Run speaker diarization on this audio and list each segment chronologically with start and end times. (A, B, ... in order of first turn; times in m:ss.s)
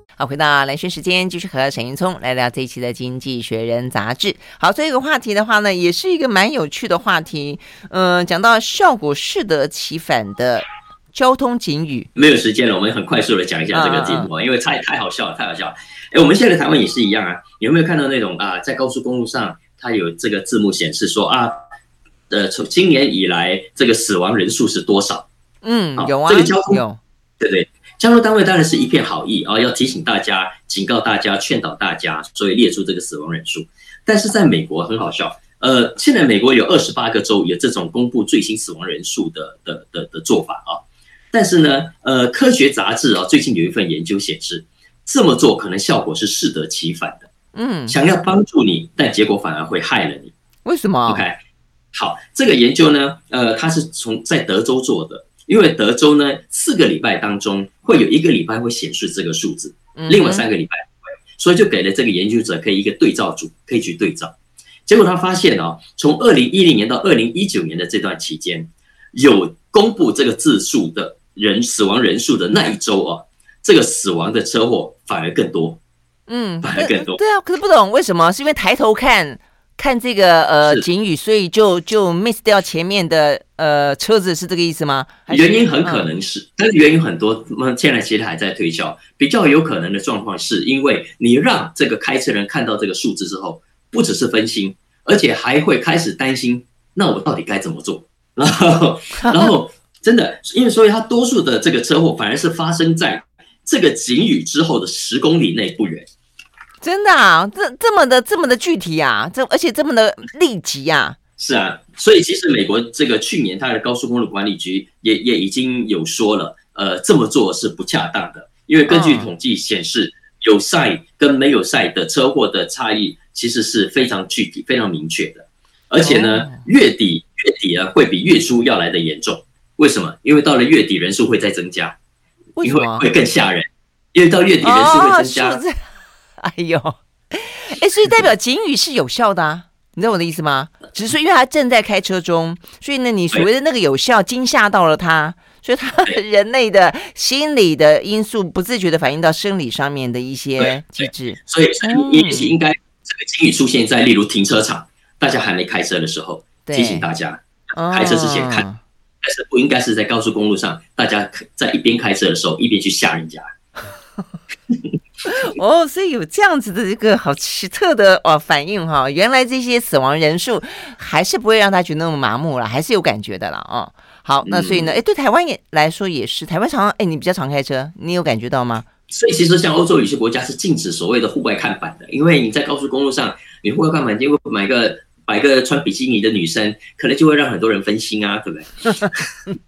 0:00.2-0:12.1 A
0:12.2-0:21.6 B
0:13.7-0:14.3 A
0:22.3-0:25.3 B
0:25.6-0:27.0 A
0:26.0-0:26.8 B
0:27.4-0:47.3 B
0:47.6-0:48.0 A
0:47.9-0:50.3 B
0:50.6-0:51.2 A
0:51.1-0:51.4 B
0:51.9-1:04.3 B
1:00.0-1:00.4 A
1:04.9-1:15.8 B
1:16.3-1:26.1 A
1:16.6-1:17.2 B
1:25.3-1:46.1 B
1:39.2-1:39.5 A
1:46.8-1:51.2 A
1:51.4-2:12.0 B
1:58.9-1:59.3 A
2:06.0-2:06.6 A
2:12.6-2:13.1 A
2:12.6-2:15.6 B
2:14.6-2:15.8 A
2:16.4-2:32.5 A
2:30.6-2:38.6 B
2:36.7-2:37.1 A
2:37.8-2:38.8 A
2:39.2-2:43.5 B
2:45.3-2:58.9 A
2:54.4-2:54.9 B
2:59.1-3:09.2 B